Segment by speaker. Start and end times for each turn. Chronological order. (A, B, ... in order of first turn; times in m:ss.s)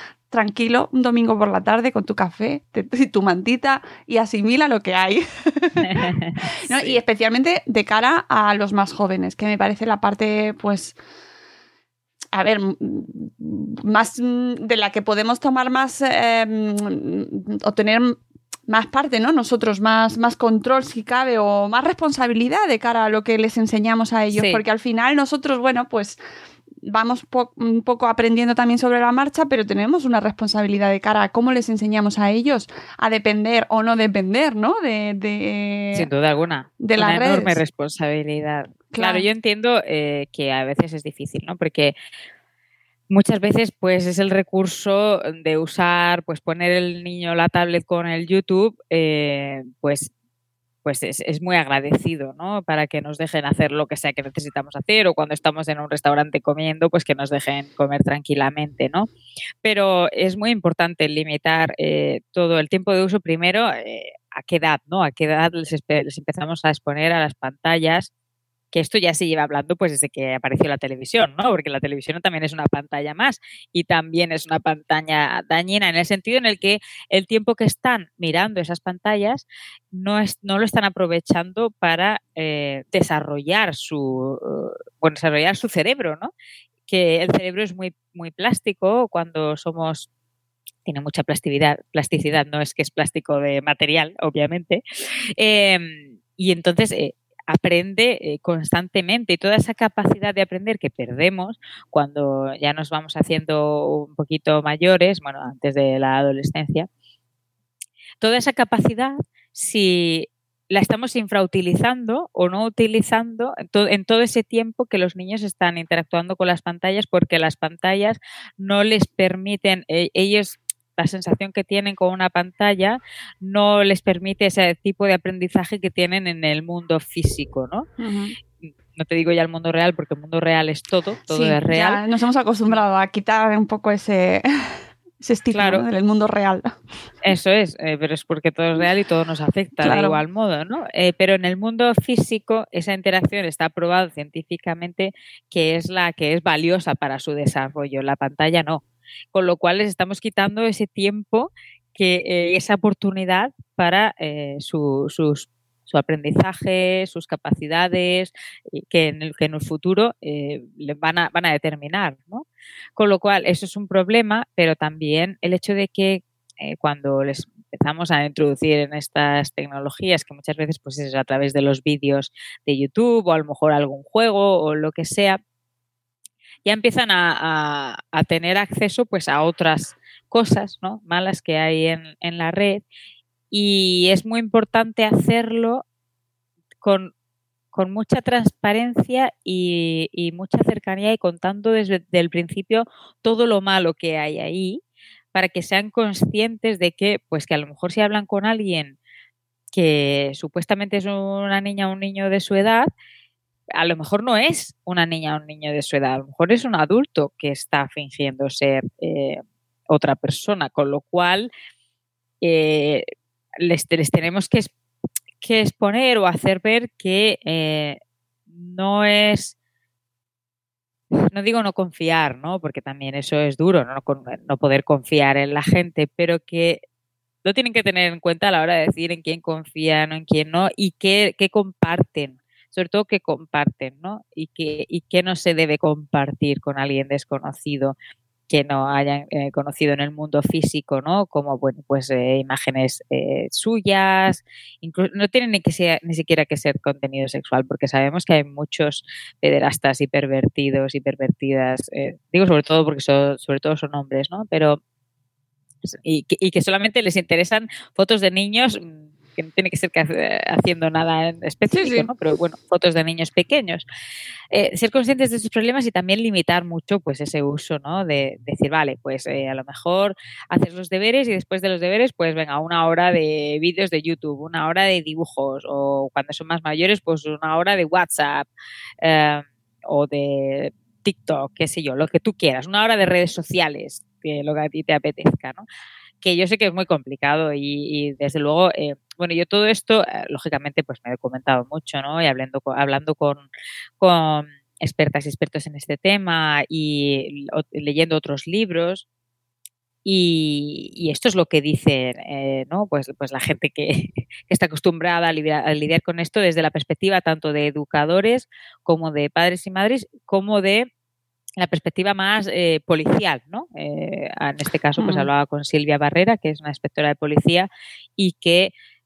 0:00.3-0:06.1 A
0:05.8-0:07.0 B
0:06.6-0:11.0 A
0:12.3-0:26.2 A
0:24.3-0:24.6 B
0:26.8-0:36.1 A
0:35.9-0:41.9 B
0:36.8-0:37.6 A
0:38.9-0:39.3 A
0:43.1-0:50.1 B
0:50.8-0:59.1 B
0:59.6-1:08.1 B
1:08.7-1:26.3 B
1:26.9-1:30.1 B
1:30.8-1:34.8 B
1:35.4-1:46.9 B
1:48.2-2:07.9 B
2:08.0-2:08.3 A
2:08.6-2:12.0 B
2:11.3-2:16.7 A
2:15.5-2:15.8 B
2:17.2-2:55.4 B
2:19.8-2:20.2 A
2:56.6-3:02.8 B
3:03.5-3:05.8 B
3:06.8-3:07.1 B
3:07.7-3:14.8 B
3:15.3-3:19.0 B
3:19.7-3:22.9 B
3:23.7-3:31.5 B
3:32.4-3:33.0 B
3:33.6-3:34.7 B
3:35.4-3:38.0 B
3:38.5-3:39.5 B
3:41.1-3:46.8 B
3:47.4-3:57.9 B
3:58.5-4:14.8 B
4:15.8-4:23.8 B
4:21.7-4:22.1 A
4:24.5-4:38.5 B
4:39.0-4:45.6 B
4:46.2-4:53.4 B
4:54.0-4:59.0 B
5:00.0-5:10.9 B
5:11.6-5:18.7 B
5:15.0-5:15.3 A